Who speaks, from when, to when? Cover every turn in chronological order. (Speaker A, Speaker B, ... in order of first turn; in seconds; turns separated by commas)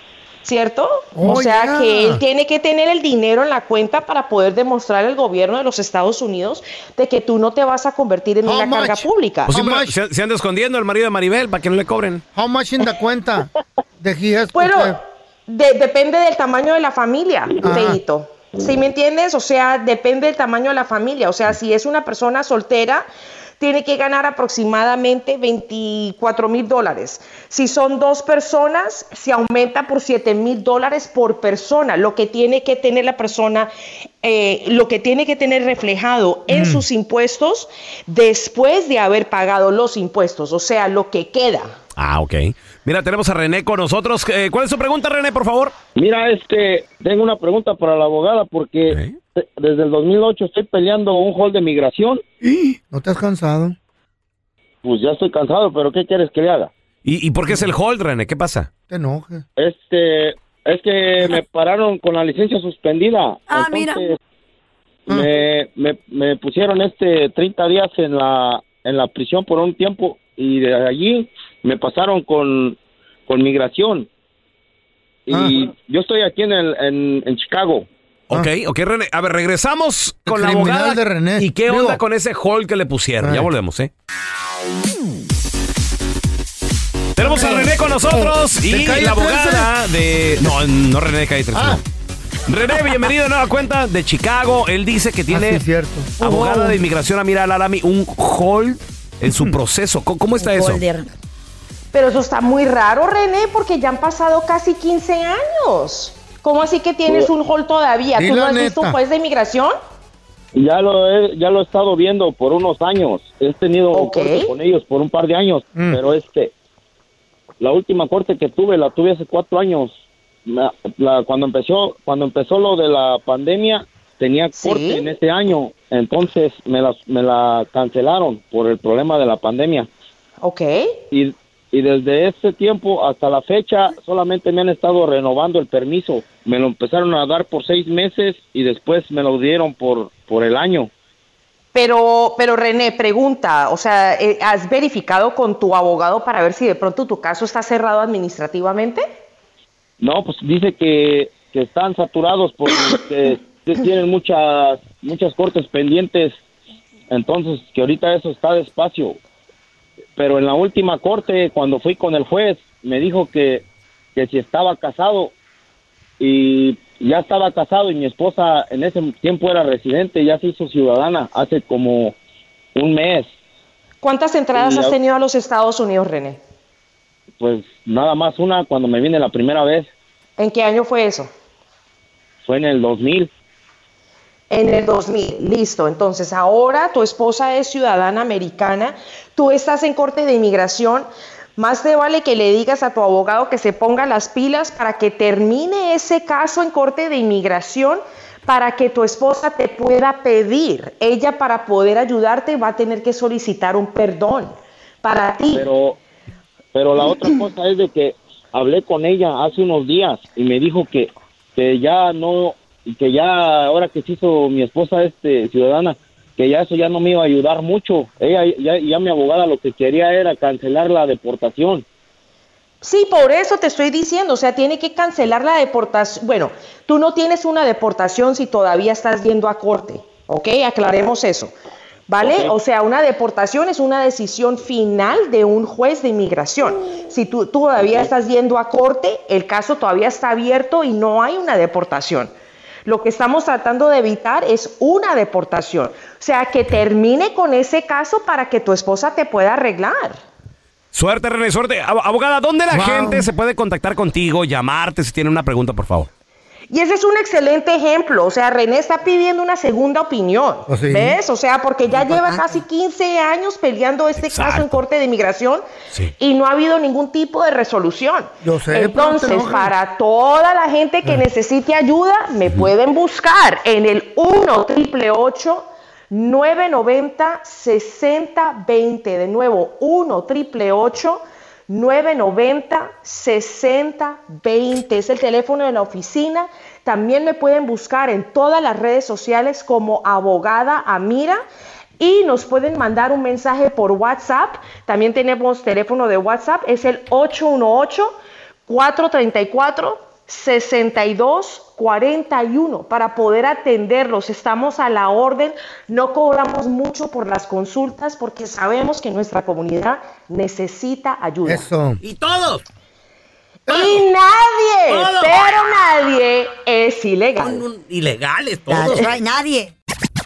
Speaker A: 0.4-9.5, Speaker B: 1.1-2.2, Speaker B: 8.4-9.9, Speaker C: 9.5-12.2, Speaker B: 12.3-13.5, Speaker B: 14.0-15.0, Speaker A: 14.5-23.1, Speaker B: 17.6-18.0, Speaker A: 23.6-33.7, Speaker A: 34.2-41.8, Speaker B: 36.5-36.8, Speaker C: 42.0-45.7, Speaker D: 46.0-52.2, Speaker C: 48.9-49.1, Speaker B: 52.4-53.8, Speaker D: 54.8-56.7, Speaker C: 57.0-58.7, Speaker B: 58.9-59.4, Speaker D: 59.6-64.1, Speaker E: 63.5-64.0, Speaker D: 65.1-74.1, Speaker D: 75.3-77.9, Speaker B: 75.3-75.5, Speaker C: 78.3-83.9, Speaker B: 80.2-82.0, Speaker B: 83.2-83.5, Speaker C: 87.2-91.8, Speaker B: 87.2-88.0, Speaker B: 88.6-89.7, Speaker B: 91.5-91.8, Speaker C: 92.5-95.6, Speaker B: 95.3-96.8, Speaker C: 96.2-100.8, Speaker B: 99.3-99.5, Speaker E: 100.4-101.1, Speaker A: 101.9-109.8, Speaker B: 108.1-109.0, Speaker D: 110.5-116.5, Speaker A: 113.9-114.5, Speaker B: 115.7-116.0, Speaker D: 117.6-129.9, Speaker A: 124.5-125.0, Speaker A: 130.4-130.9, Speaker D: 131.1-140.9, Speaker A: 141.7-149.0, Speaker D: 150.0-156.3, Speaker D: 157.1-159.2, Speaker D: 160.2-163.6, Speaker D: 164.1-165.3, Speaker D: 166.2-172.2, Speaker D: 172.7-173.3, Speaker A: 174.0-176.4, Speaker D: 174.5-174.9, Speaker D: 177.4-179.9, Speaker A: 180.4-181.3, Speaker D: 182.4-183.3, Speaker A: 184.5-205.7, Speaker D: 205.5-206.0, Speaker D: 206.7-221.8, Speaker A: 222.8-231.5, Speaker A: 232.1-242.3, Speaker D: 232.2-232.5, Speaker A: 242.8-250.2, Speaker C: 250.9-256.1, Speaker B: 252.7-253.3, Speaker A: 256.7-265.6, Speaker B: 260.7-261.2, Speaker C: 264.2-264.8, Speaker A: 266.2-291.4, Speaker B: 268.4-269.7, Speaker A: 292.0-298.1, Speaker A: 298.7-311.7, Speaker B: 311.4-312.0, Speaker C: 312.0-312.6, Speaker B: 313.7-314.0, Speaker A: 313.7-317.6, Speaker C: 314.9-315.5, Speaker C: 317.4-319.1, Speaker E: 318.7-319.7